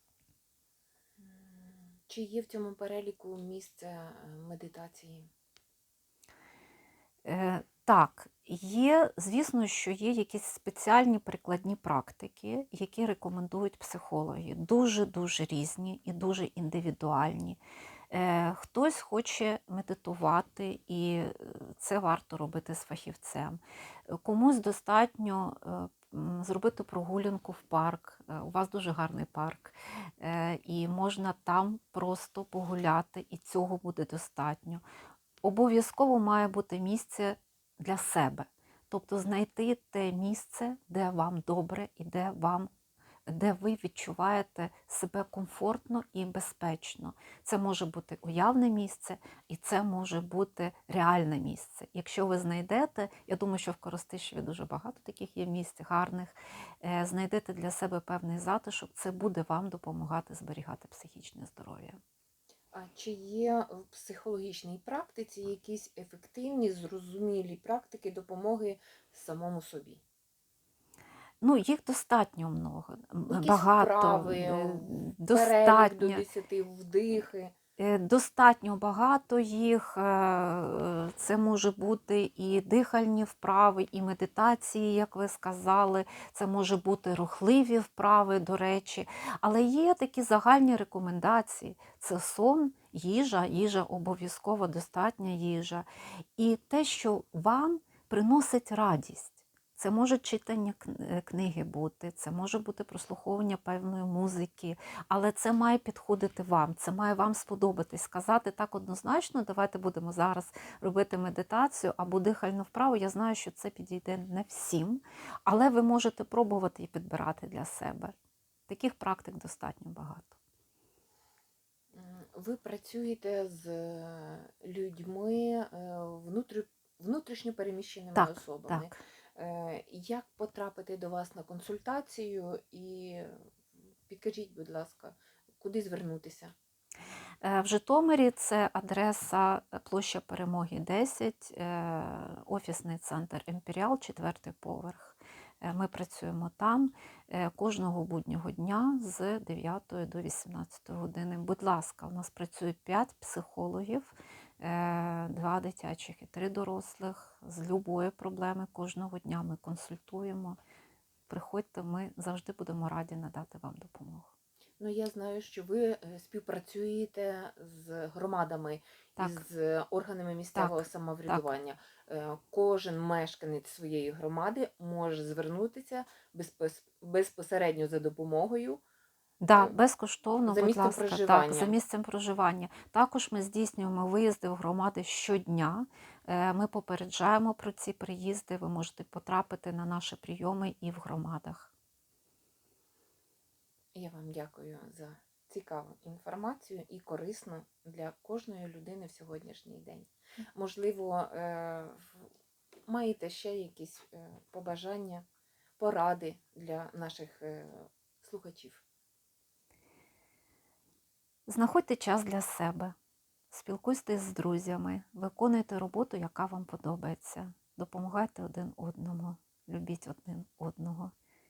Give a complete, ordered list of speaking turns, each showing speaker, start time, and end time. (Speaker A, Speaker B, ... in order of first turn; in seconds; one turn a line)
Speaker A: 1.2-5.3
Speaker B: 7.2-17.6
Speaker B: 18.1-34.8
Speaker B: 35.4-42.7
Speaker B: 43.3-62.0
Speaker A: 62.7-70.0
Speaker B: 71.4-76.2
Speaker A: 73.3-77.5
Speaker B: 77.8-95.8
Speaker B: 96.4-118.1
Speaker B: 118.7-120.4
Speaker A: 121.9-133.3
Speaker B: 128.1-128.9
Speaker A: 134.1-136.5
Speaker B: 137.4-160.6
Speaker B: 161.3-164.3
Speaker A: 164.8-178.8
Speaker B: 169.2-169.4
Speaker B: 170.5-171.5
Speaker B: 179.4-191.7
Speaker A: 180.4-181.7
Speaker A: 193.9-202.3
Speaker A: 202.9-205.2
Speaker A: 205.8-208.8
Speaker B: 211.5-212.9
Speaker B: 213.5-221.1